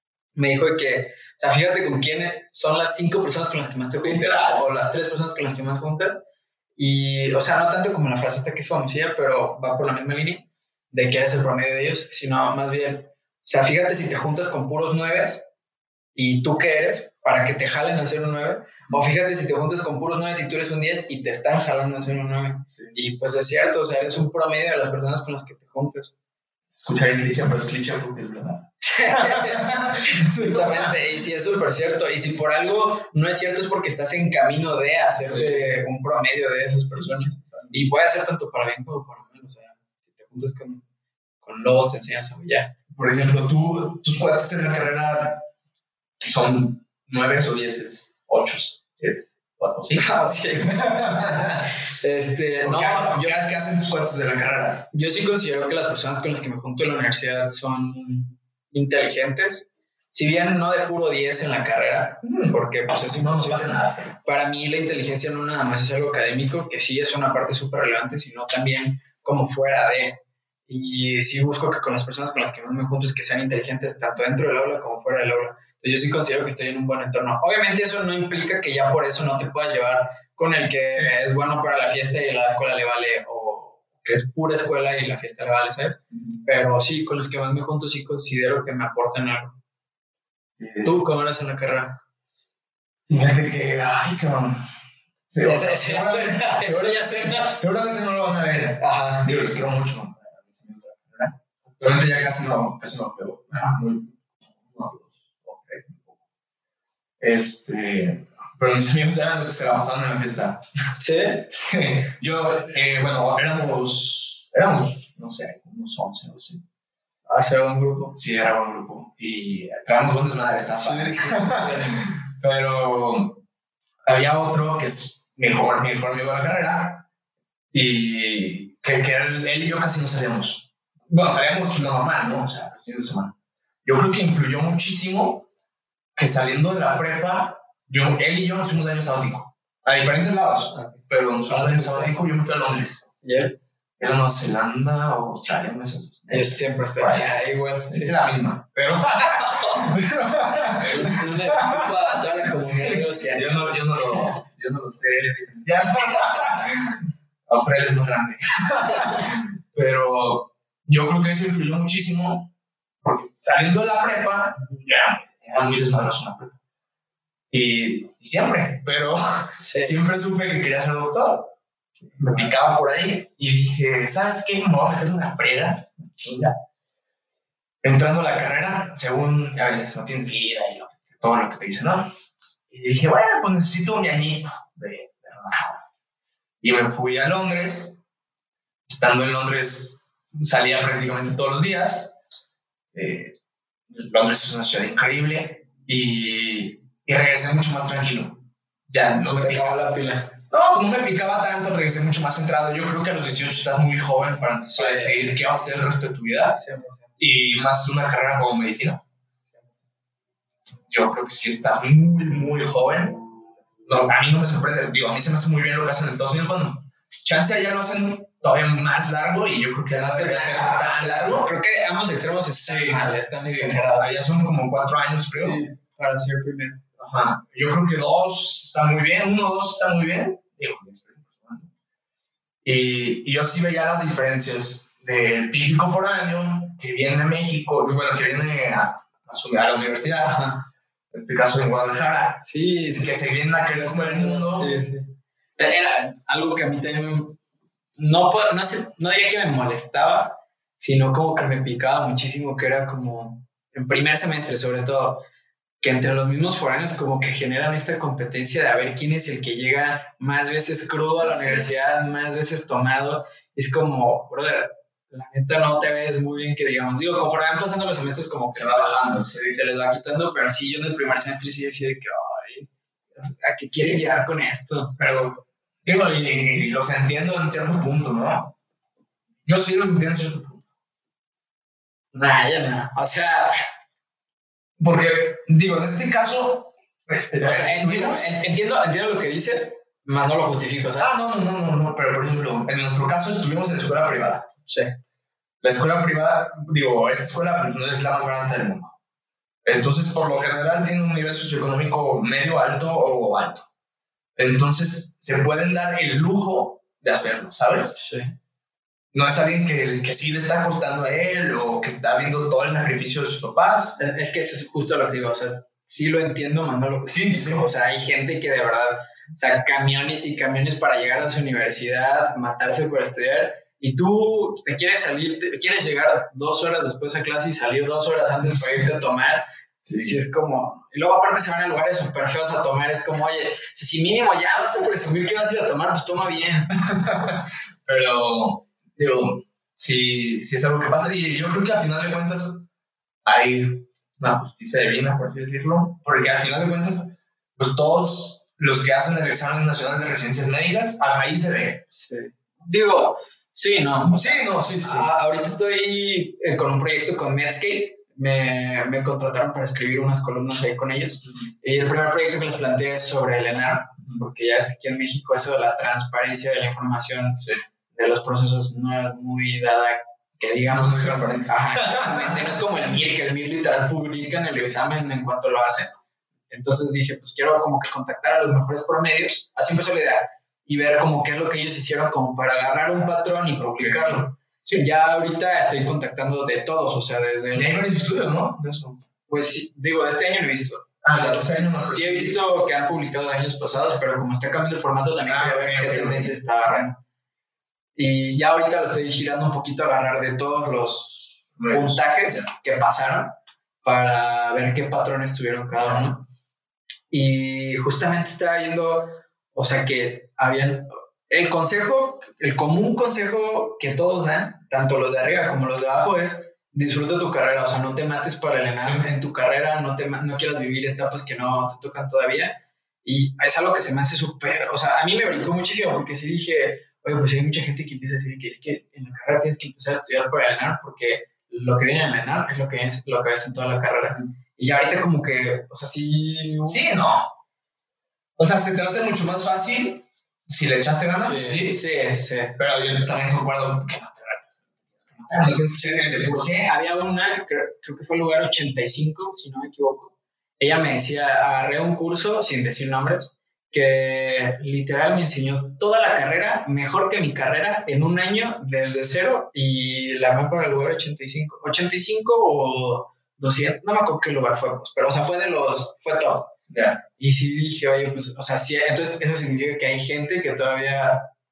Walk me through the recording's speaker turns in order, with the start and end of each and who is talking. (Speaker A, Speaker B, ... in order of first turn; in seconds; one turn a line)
Speaker A: 0.3-6.2
Speaker B: 4.0-4.7
Speaker A: 6.8-15.4
Speaker A: 16.1-26.2
Speaker B: 22.7-23.0
Speaker B: 26.7-31.0
Speaker A: 28.8-40.8
Speaker B: 35.1-35.7
Speaker B: 36.9-37.8
Speaker A: 41.4-42.7
Speaker B: 42.9-45.5
Speaker B: 46.2-51.7
Speaker A: 50.0-53.4
Speaker B: 52.6-54.9
Speaker A: 54.9-89.6
Speaker B: 62.2-64.2
Speaker B: 80.9-81.1
Speaker B: 86.1-86.4
Speaker B: 90.6-91.0
Speaker A: 90.8-92.0
Speaker B: 93.1-94.7
Speaker B: 95.3-106.2
Speaker A: 95.4-97.6
Speaker A: 98.8-99.3
Speaker B: 107.2-110.6
Speaker A: 111.0-111.5
Speaker B: 111.5-116.6
Speaker A: 117.3-118.1
Speaker B: 118.1-123.4
Speaker A: 120.8-122.1
Speaker B: 124.1-127.1
Speaker B: 127.7-133.3
Speaker B: 133.8-135.5
Speaker B: 136.2-143.1
Speaker A: 140.7-142.2
Speaker A: 143.2-143.6
Speaker B: 144.0-151.9
Speaker A: 146.3-148.2
Speaker A: 149.2-150.0
Speaker A: 150.5-154.4
Speaker B: 152.4-157.0
Speaker A: 156.0-156.6
Speaker B: 157.5-162.5
Speaker A: 158.8-159.3
Speaker B: 163.0-166.6
Speaker B: 167.5-171.5
Speaker A: 169.6-169.9
Speaker B: 172.2-176.6
Speaker B: 177.8-182.1
Speaker B: 182.7-185.8
Speaker B: 186.6-188.0
Speaker B: 188.9-192.2
Speaker B: 192.9-193.3
Speaker B: 193.9-199.8
Speaker A: 199.1-200.4
Speaker B: 200.5-206.6
Speaker A: 204.8-205.3
Speaker A: 206.6-207.1
Speaker B: 207.2-209.0
Speaker B: 210.9-213.3
Speaker B: 213.9-221.5
Speaker A: 219.9-224.2
Speaker B: 222.5-225.6
Speaker A: 225.3-226.8
Speaker B: 227.0-231.7
Speaker B: 232.6-240.5
Speaker A: 240.2-240.7
Speaker B: 241.1-244.8
Speaker A: 242.4-247.4
Speaker A: 248.0-255.2
Speaker A: 255.8-275.0
Speaker B: 261.2-261.7
Speaker B: 268.5-269.4
Speaker B: 275.0-278.6
Speaker B: 279.4-280.7
Speaker A: 282.1-283.7
Speaker B: 284.8-288.3
Speaker A: 287.4-291.1
Speaker B: 291.0-294.5
Speaker A: 294.7-294.9
Speaker B: 295.6-298.9
Speaker B: 299.6-303.7
Speaker B: 304.4-308.0
Speaker A: 307.9-308.3
Speaker B: 309.1-314.0
Speaker A: 314.0-329.5
Speaker B: 317.1-317.7
Speaker B: 329.8-330.2
Speaker A: 330.0-336.7
Speaker B: 336.9-342.7
Speaker B: 343.2-351.9
Speaker A: 351.9-375.9
Speaker B: 354.1-355.1
Speaker B: 361.2-361.5
Speaker B: 367.4-367.6
Speaker B: 370.6-372.6
Speaker A: 376.5-387.9
Speaker B: 383.6-384.9
Speaker B: 387.5-389.0
Speaker A: 389.3-397.0
Speaker B: 391.0-392.4
Speaker B: 395.2-396.4
Speaker A: 398.0-406.3
Speaker B: 401.6-402.5
Speaker A: 407.1-436.9
Speaker B: 418.8-419.1
Speaker B: 436.7-437.4
Speaker B: 438.4-441.8
Speaker A: 441.2-442.6
Speaker B: 442.6-446.7
Speaker A: 445.3-466.5
Speaker B: 466.7-467.0
Speaker A: 467.2-471.3